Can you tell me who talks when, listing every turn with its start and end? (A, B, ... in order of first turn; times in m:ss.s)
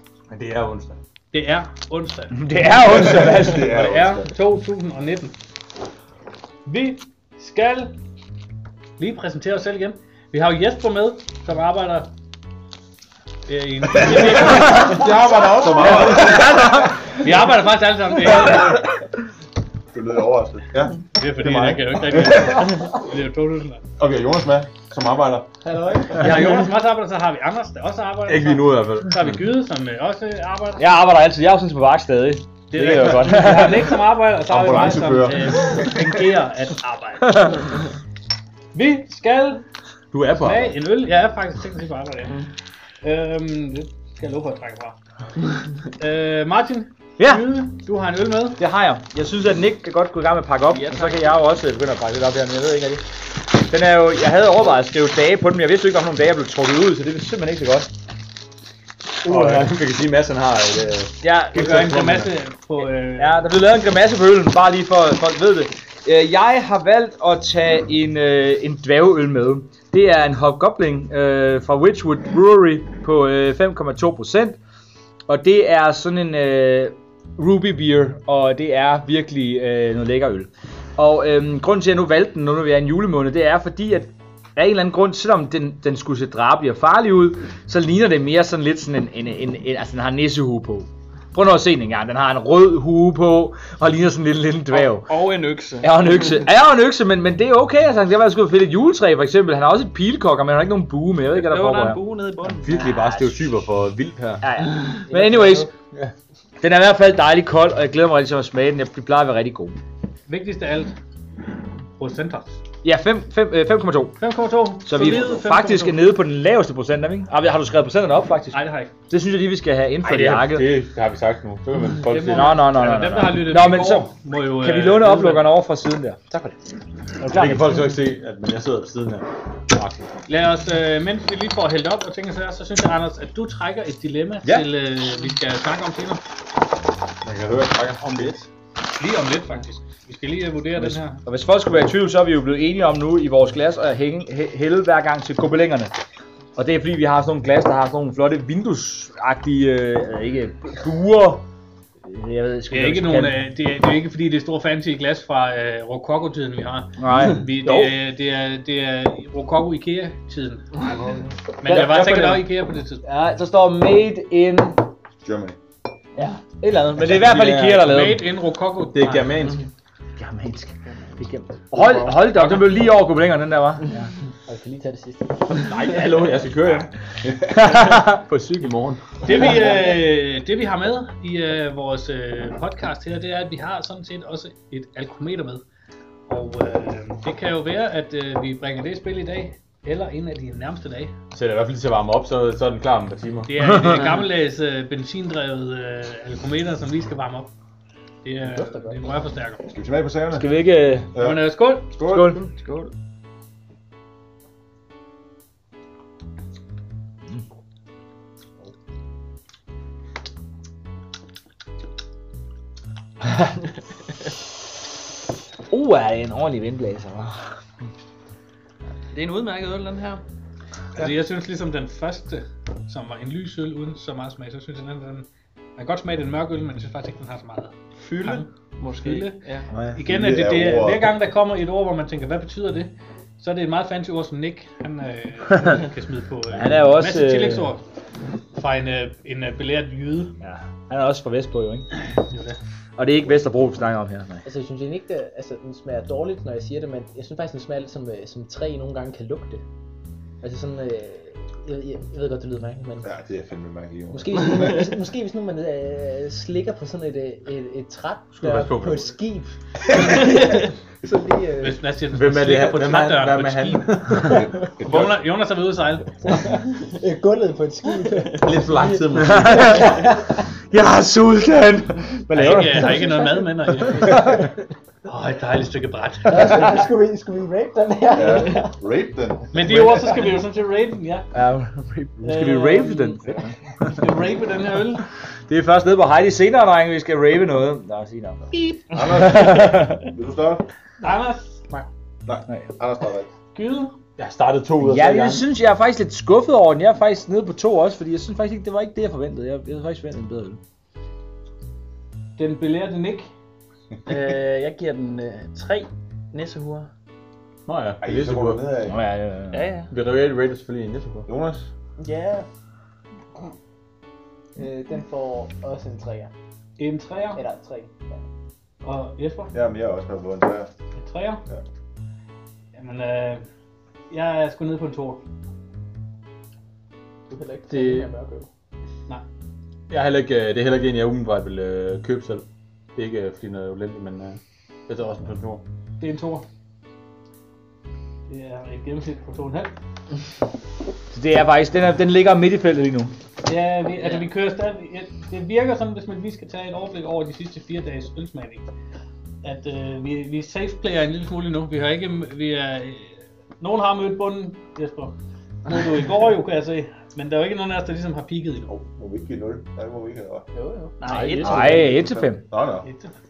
0:00.3-0:01.0 A
0:01.3-0:05.4 B
0:02.3-0:03.7 C
0:02.9-0:04.3 D
0:06.6-0:08.0 B
0:09.0-0:12.1 B
0:13.5-0:15.2 B
0:13.9-0:16.9 D
0:15.7-0:16.9 C
0:15.8-0:18.8 B
0:19.9-0:22.5 D
0:21.2-0:23.8 B
0:24.0-0:25.2 D
0:24.8-0:25.4 A
0:25.6-0:26.3 E
0:26.1-0:30.9 B
0:28.3-0:29.4 A
0:30.8-0:34.0 C
0:32.7-0:37.6 B
0:34.4-0:35.8 D
0:37.2-0:37.5 C
0:38.7-0:39.6 B
0:40.1-0:40.7 A
0:40.4-0:42.5 B
0:43.0-0:45.0 B
0:45.8-0:48.6 B
0:47.2-0:47.5 C
0:48.6-0:57.9 C
0:50.7-0:51.3 F
0:59.2-0:59.7 C
0:59.2-1:02.3 A
1:01.2-1:02.2 C
1:01.5-1:03.4 B
1:02.8-1:14.6 C
1:15.3-1:35.2 C
1:34.7-1:36.4 F
1:35.8-1:42.0 C
1:41.3-1:42.7 F
1:42.4-1:44.4 A
1:42.7-1:43.5 C
1:44.4-1:45.7 C
1:44.8-1:45.6 F
1:46.6-1:49.8 C
1:50.3-1:50.9 B
1:51.9-1:52.6 B
1:52.8-1:54.2 C
1:54.2-1:56.1 B
1:54.8-2:00.7 C
1:58.5-1:58.9 B
2:00.0-2:02.5 A
2:02.1-2:05.5 B
2:02.3-2:06.2 C
2:06.3-2:06.6 A
2:07.2-2:07.8 C
2:07.3-2:10.1 A
2:10.3-2:16.2 B
2:14.4-2:14.7 A
2:17.2-2:18.4 A
2:19.0-2:21.2 B
2:20.8-2:25.9 C
2:26.6-2:31.4 C
2:32.0-2:33.4 C
2:32.7-2:40.7 B
2:37.0-2:38.0 C
2:41.6-2:43.0 B
2:41.6-2:42.5 C
2:43.0-2:44.8 C
2:45.2-2:45.6 D
2:46.2-2:48.3 C
2:47.0-2:47.8 A
2:47.8-2:49.4 B
2:48.8-2:49.6 A
2:50.2-2:54.1 C
2:51.8-2:52.1 D
2:54.5-2:55.6 E
2:55.5-2:56.9 A
2:57.2-2:57.6 D
2:57.6-2:58.2 C
2:58.0-2:59.2 A
2:59.2-3:05.6 B
3:06.3-3:11.1 B
3:11.3-3:13.7 A
3:13.4-3:17.5 B
3:13.6-3:14.0 C
3:18.2-3:19.7 B
3:18.6-3:18.9 E
3:19.6-3:20.5 D
3:20.3-3:21.1 C
3:21.1-3:22.3 D
3:21.2-3:21.9 B
3:22.1-3:22.4 C
3:22.3-3:22.9 F
3:35.7-3:37.4 C
3:39.1-3:40.2 F
3:40.9-3:57.8 B
3:48.0-3:49.7 F
3:50.0-3:51.1 D
3:56.5-3:57.7 C
3:58.5-4:00.3 B
4:00.4-4:01.9 C
4:02.2-4:02.6 B
4:03.0-4:04.4 C
4:04.4-4:09.6 E
4:10.4-4:13.1 E
4:13.0-4:14.9 D
4:14.1-4:21.8 E
4:18.4-4:19.2 A
4:21.6-4:26.1 B
4:22.1-4:25.1 A
4:26.3-4:30.4 E
4:28.3-4:29.9 A
4:29.1-4:34.5 C
4:32.3-4:34.4 B
4:32.8-4:33.4 E
4:35.0-4:36.6 B
4:36.3-4:38.8 E
4:38.1-4:40.0 D
4:39.5-4:41.3 B
4:41.3-4:44.1 C
4:42.2-4:45.0 B
4:45.5-4:48.4 C
4:48.9-4:50.6 D
4:49.1-4:50.0 C
4:51.0-4:51.9 B
4:52.2-4:53.3 D
4:53.5-4:54.0 B
4:54.2-4:55.5 A
4:54.8-5:00.6 C
5:02.4-5:03.3 B
5:04.1-5:06.9 F
5:07.7-5:08.7 A
5:08.0-5:09.0 D
5:08.8-5:09.6 C
5:09.5-5:09.9 F
5:09.9-5:11.3 A
5:11.3-5:11.7 D
5:12.0-5:12.5 E
5:14.6-5:16.3 E
5:16.8-5:17.4 B
5:17.3-5:18.2 E
5:18.8-5:19.5 B
5:19.5-5:20.7 D
5:21.0-5:21.4 B
5:22.7-5:23.4 B
5:24.1-5:25.2 B
5:27.3-5:28.5 E
5:27.7-5:28.1 A
5:29.9-5:32.4 A
5:33.0-5:35.6 A
5:36.0-5:36.4 B
5:38.3-5:39.7 B
5:41.1-5:43.1 C
5:43.4-5:48.6 B
5:49.4-5:58.7 B
5:58.7-6:00.4 D
6:00.5-6:00.9 E
6:01.0-6:01.7 B
6:01.0-6:01.9 A
6:01.4-6:02.9 D
6:01.4-6:02.4 C
6:02.8-6:03.1 B